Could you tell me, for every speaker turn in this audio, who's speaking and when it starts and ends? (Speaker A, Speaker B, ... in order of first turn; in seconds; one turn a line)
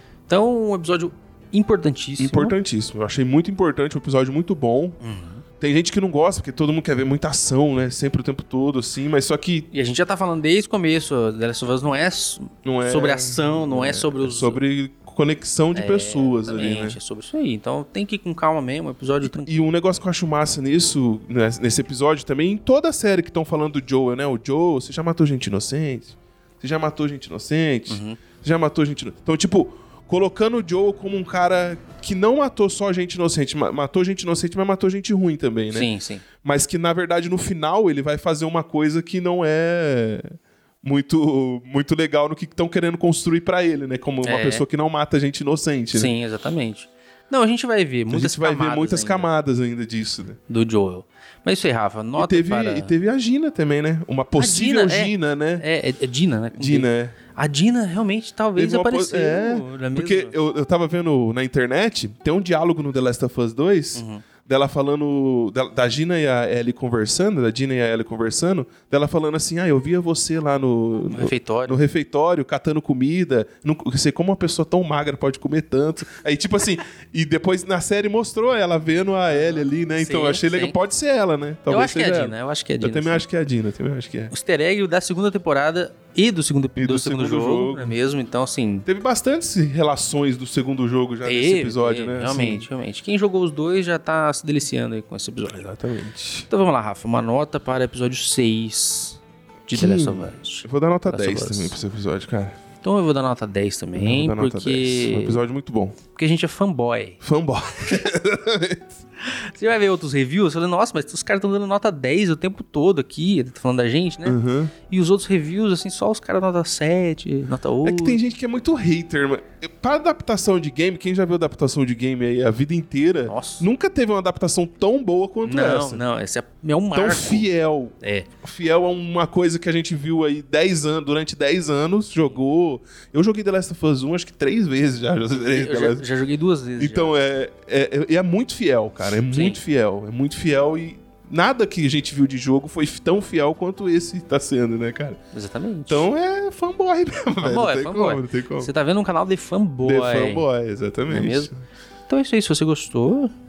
Speaker A: 0.3-2.6
Speaker B: 2.2-5.0
Speaker A: 5.0-5.4
Speaker B: 5.6-9.7
Speaker A: 9.7-14.6
Speaker B: 12.7-17.0
Speaker A: 15.8-19.5
Speaker B: 19.2-35.9
Speaker A: 27.9-28.2
Speaker A: 35.7-36.2
Speaker B: 36.4-46.1
Speaker A: 44.2-44.6
Speaker A: 45.9-49.3
Speaker B: 48.1-50.4
Speaker A: 50.5-52.9
Speaker B: 52.2-55.6
Speaker A: 54.4-60.3
Speaker B: 56.6-57.2
Speaker B: 58.6-84.3
Speaker A: 64.0-64.2
Speaker A: 71.1-71.8
Speaker A: 79.3-80.8
Speaker A: 81.7-83.3
Speaker A: 84.3-88.9
Speaker B: 86.8-88.0
Speaker B: 88.8-92.7
Speaker A: 91.2-95.7
Speaker B: 95.5-96.5
Speaker A: 96.5-101.8
Speaker B: 99.7-102.6
Speaker A: 102.8-105.4
Speaker B: 104.0-106.0
Speaker A: 106.1-107.2
Speaker B: 107.2-109.0
Speaker A: 109.2-118.2
Speaker B: 114.2-114.7
Speaker B: 117.8-126.0
Speaker A: 123.3-123.7
Speaker A: 125.4-127.5
Speaker B: 126.9-136.1
Speaker A: 128.0-128.3
Speaker A: 135.3-137.2
Speaker B: 136.8-145.2
Speaker A: 139.3-139.6
Speaker A: 145.3-146.1
Speaker B: 145.9-148.7
Speaker A: 147.4-150.5
Speaker B: 149.8-151.6
Speaker A: 151.1-151.5
Speaker A: 152.1-153.3